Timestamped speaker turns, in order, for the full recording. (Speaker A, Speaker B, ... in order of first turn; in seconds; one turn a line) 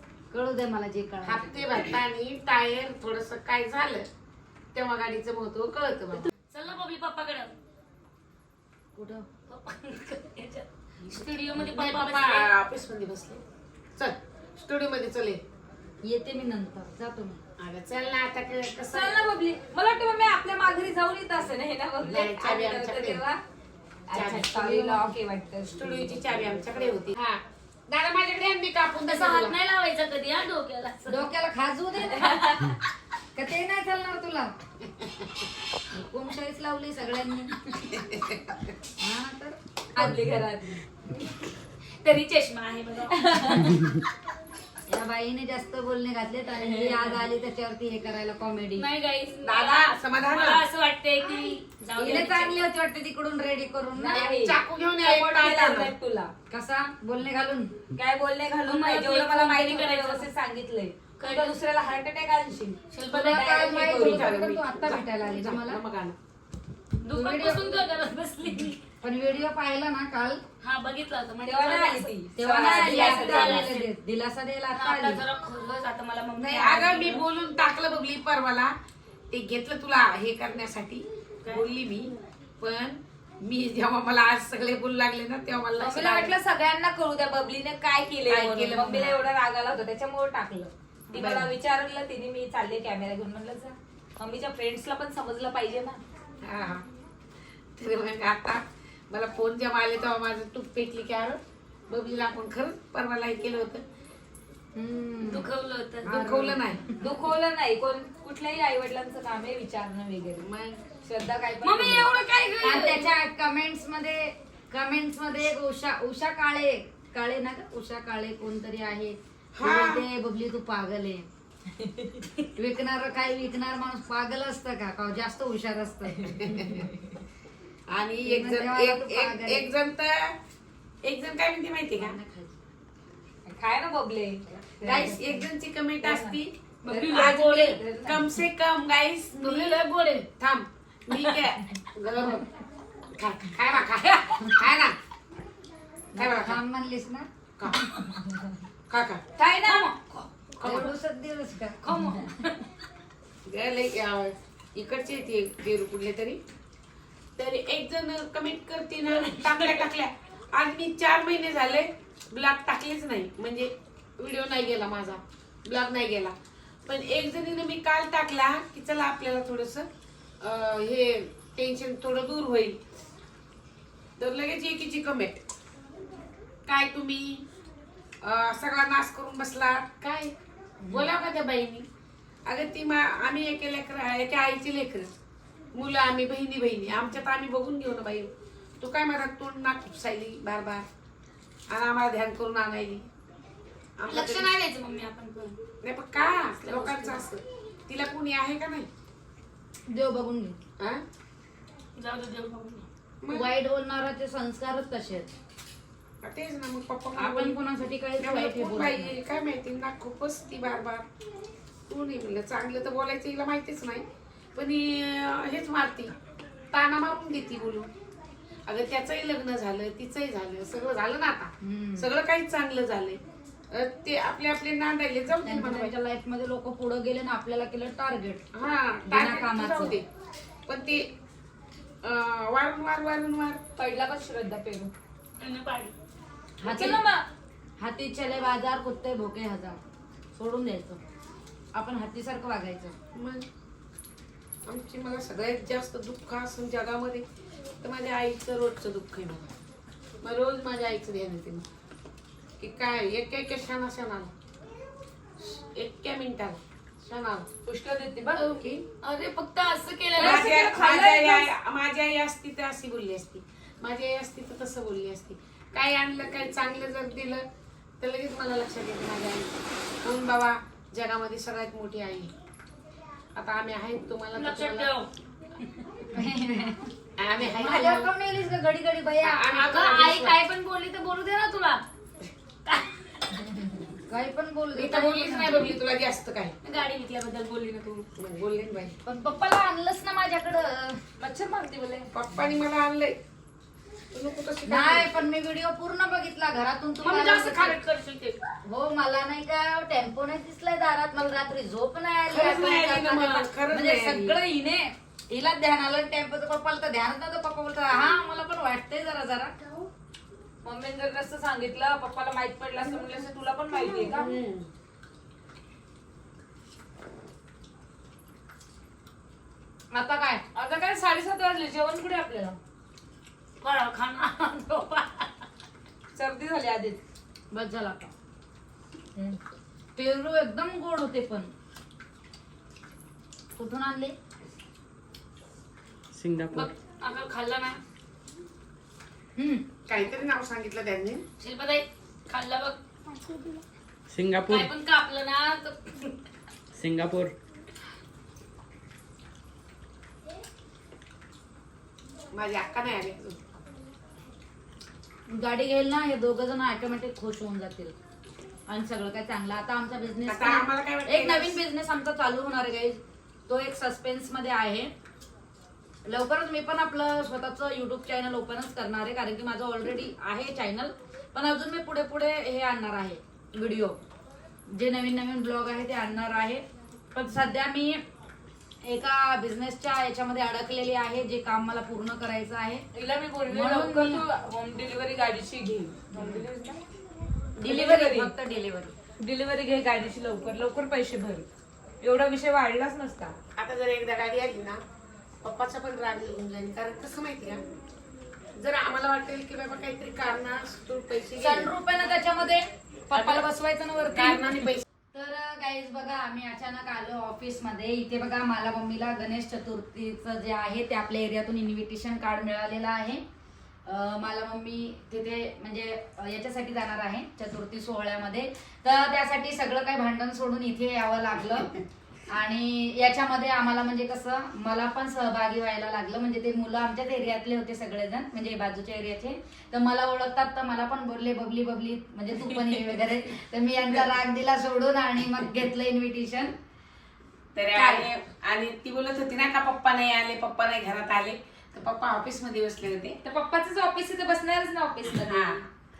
Speaker A: 0.3-1.9
Speaker B: 1.2-4.1
Speaker B: 4.7-6.3
Speaker C: 6.2-7.5
Speaker A: 8.9-9.3
Speaker C: 9.5-12.5
Speaker B: 11.1-13.4
Speaker B: 13.9-15.4
Speaker A: 16.1-17.4
Speaker B: 17.6-19.2
Speaker D: 18.9-23.4
Speaker B: 22.1-23.2
Speaker D: 24.1-26.2
Speaker B: 24.1-25.1
Speaker B: 25.7-29.6
Speaker C: 29.0-31.3
Speaker A: 31.1-32.8
Speaker D: 32.1-32.5
Speaker C: 32.2-32.5
Speaker A: 33.3-34.5
Speaker A: 35.9-37.9
Speaker A: 39.0-40.2
Speaker D: 40.0-40.8
Speaker C: 42.0-43.9
Speaker D: 43.2-43.9
Speaker A: 44.9-48.9
Speaker D: 46.6-47.1
Speaker C: 48.7-52.6
Speaker B: 49.4-50.6
Speaker A: 52.0-54.3
Speaker D: 53.9-56.3
Speaker B: 54.2-55.9
Speaker A: 56.5-57.8
Speaker D: 57.9-64.3
Speaker C: 58.6-60.3
Speaker C: 61.2-61.5
Speaker C: 62.9-63.6
Speaker A: 63.1-65.8
Speaker B: 63.9-66.2
Speaker C: 67.0-68.8
Speaker A: 67.1-67.8
Speaker A: 69.0-70.4
Speaker C: 70.6-73.9
Speaker D: 71.4-73.7
Speaker A: 72.4-75.2
Speaker C: 74.7-77.2
Speaker B: 76.4-78.7
Speaker B: 79.3-86.4
Speaker D: 85.8-96.0
Speaker B: 88.3-89.3
Speaker B: 91.1-91.5
Speaker B: 96.4-96.8
Speaker B: 97.8-103.8
Speaker A: 104.7-105.5
Speaker C: 105.3-106.2
Speaker B: 106.0-106.8
Speaker A: 106.1-107.1
Speaker D: 107.0-110.4
Speaker B: 110.4-110.9
Speaker D: 111.1-112.0
Speaker A: 111.3-112.1
Speaker C: 111.6-113.1
Speaker A: 112.6-121.3
Speaker B: 119.5-120.0
Speaker A: 122.5-126.3
Speaker B: 126.3-126.9
Speaker B: 127.9-130.3
Speaker A: 128.2-129.7
Speaker B: 131.0-132.2
Speaker A: 132.0-132.5
Speaker D: 133.4-135.3
Speaker B: 134.8-139.8
Speaker D: 136.1-138.2
Speaker C: 136.8-137.8
Speaker C: 139.4-140.3
Speaker B: 140.4-142.5
Speaker B: 143.1-144.9
Speaker A: 146.1-147.3
Speaker B: 146.2-146.6
Speaker B: 148.9-149.2
Speaker C: 149.4-150.8
Speaker B: 150.6-150.9
Speaker A: 150.6-152.3
Speaker C: 151.8-152.7
Speaker B: 153.4-156.4
Speaker B: 157.4-166.3
Speaker C: 159.1-159.8
Speaker B: 166.8-169.9
Speaker B: 170.4-172.8
Speaker B: 174.2-175.4
Speaker B: 176.7-177.4
Speaker B: 178.2-181.8
Speaker B: 182.5-185.1
Speaker B: 185.7-190.8
Speaker B: 191.7-193.1
Speaker B: 194.0-194.5
Speaker C: 194.1-195.6
Speaker B: 195.8-198.9
Speaker C: 196.6-197.2
Speaker A: 199.9-200.6
Speaker C: 201.9-202.8
Speaker B: 203.2-203.5
Speaker A: 203.3-205.3
Speaker B: 206.2-207.6
Speaker A: 207.1-209.2
Speaker B: 208.2-211.0
Speaker B: 211.9-216.1
Speaker B: 216.7-217.9
Speaker B: 218.7-223.2
Speaker A: 221.6-222.1
Speaker B: 223.7-225.9
Speaker A: 225.4-228.4
Speaker B: 228.5-230.0
Speaker A: 229.1-230.0
Speaker B: 230.7-231.1
Speaker B: 232.0-233.6
Speaker D: 233.8-234.9
Speaker C: 235.4-235.9
Speaker A: 236.6-237.0
Speaker D: 236.7-237.2
Speaker C: 236.8-237.1
Speaker A: 237.8-239.8
Speaker A: 240.3-241.0
Speaker A: 241.7-243.0
Speaker B: 243.1-243.4
Speaker B: 244.7-247.2
Speaker B: 247.8-249.5
Speaker B: 250.2-251.6
Speaker B: 252.6-254.3
Speaker B: 255.4-257.5
Speaker D: 257.6-258.4
Speaker B: 258.3-258.8
Speaker C: 259.0-260.6
Speaker B: 260.1-267.4
Speaker D: 260.2-261.5
Speaker B: 268.0-269.5
Speaker B: 270.0-272.3
Speaker B: 273.4-274.9
Speaker C: 274.3-275.1
Speaker A: 276.1-279.5
Speaker B: 277.2-278.1
Speaker B: 279.2-280.4
Speaker C: 279.5-281.8
Speaker C: 282.6-283.8
Speaker A: 284.1-285.6
Speaker B: 284.7-286.5
Speaker C: 285.4-285.8
Speaker C: 286.6-288.1
Speaker B: 288.2-288.9
Speaker A: 289.0-291.0
Speaker D: 291.2-292.1
Speaker B: 292.1-293.2
Speaker B: 294.1-295.1
Speaker A: 294.6-297.8
Speaker C: 297.0-298.5
Speaker A: 298.6-309.5
Speaker B: 302.3-304.4
Speaker D: 310.6-314.3
Speaker B: 314.1-314.7
Speaker A: 319.9-320.5
Speaker D: 320.5-322.6
Speaker C: 323.6-325.4
Speaker D: 326.1-327.0
Speaker A: 327.5-328.1
Speaker A: 329.9-331.5
Speaker A: 333.6-334.1
Speaker E: 336.1-336.7
Speaker C: 336.5-337.8
Speaker A: 339.4-339.7
Speaker B: 339.9-341.2
Speaker C: 341.4-342.8
Speaker E: 344.1-344.7
Speaker C: 344.5-346.1
Speaker E: 346.7-347.3
Speaker B: 352.3-353.4
Speaker A: 355.3-357.9
Speaker A: 358.7-364.9
Speaker B: 360.2-361.6
Speaker A: 366.1-374.0
Speaker A: 374.7-376.6
Speaker A: 377.1-378.0
Speaker A: 378.8-382.8
Speaker D: 382.9-386.8
Speaker A: 383.5-384.2
Speaker A: 387.6-388.9
Speaker D: 387.6-388.3
Speaker D: 389.2-391.4
Speaker D: 392.0-393.4
Speaker B: 393.6-394.8
Speaker B: 395.4-397.6
Speaker B: 398.6-401.7
Speaker A: 401.4-413.2
Speaker B: 403.1-403.4
Speaker B: 404.1-404.8
Speaker A: 413.9-421.7
Speaker A: 422.3-436.5
Speaker B: 437.6-443.2
Speaker A: 437.8-438.1
Speaker D: 443.2-445.6
Speaker B: 445.1-445.6